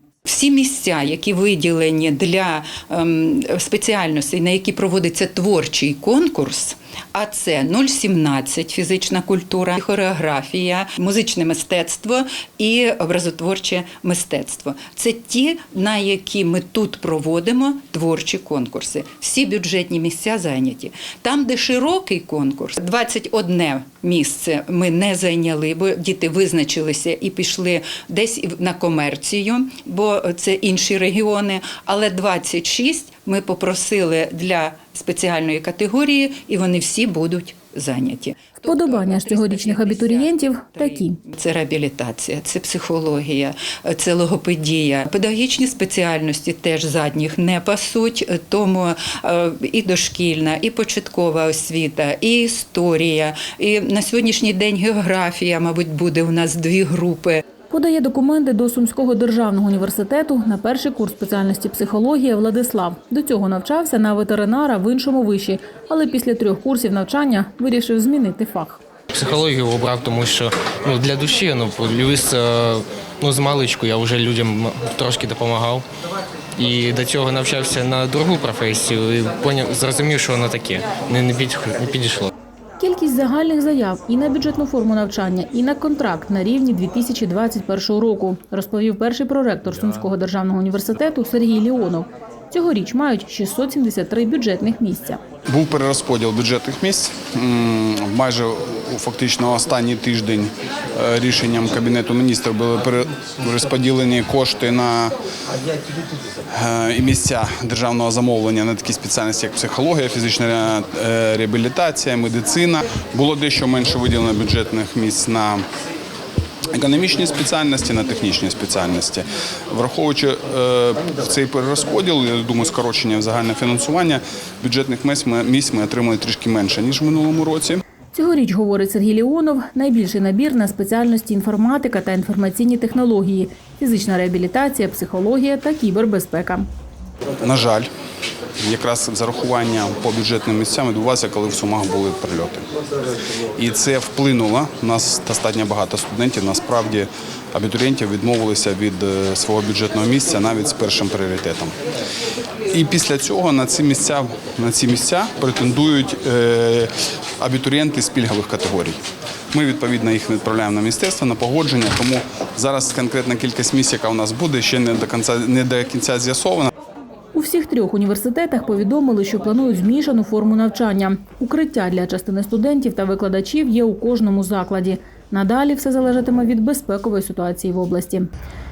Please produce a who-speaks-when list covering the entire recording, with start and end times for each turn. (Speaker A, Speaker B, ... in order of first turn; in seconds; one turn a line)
Speaker A: 0.3-57.4
Speaker B: 38.6-41.2
Speaker B: 57.7-68.8
Speaker C: 69.1-75.9
Speaker C: 76.6-82.3
Speaker B: 82.8-95.2
Speaker D: 95.5-105.2
Speaker D: 106.5-115.6
Speaker D: 116.7-127.8
Speaker B: 128.1-136.7
Speaker D: 137.4-137.9
Speaker D: 138.6-142.7
Speaker D: 143.6-151.7
Speaker D: 152.7-159.0
Speaker D: 159.5-166.7
Speaker B: 167.3-178.3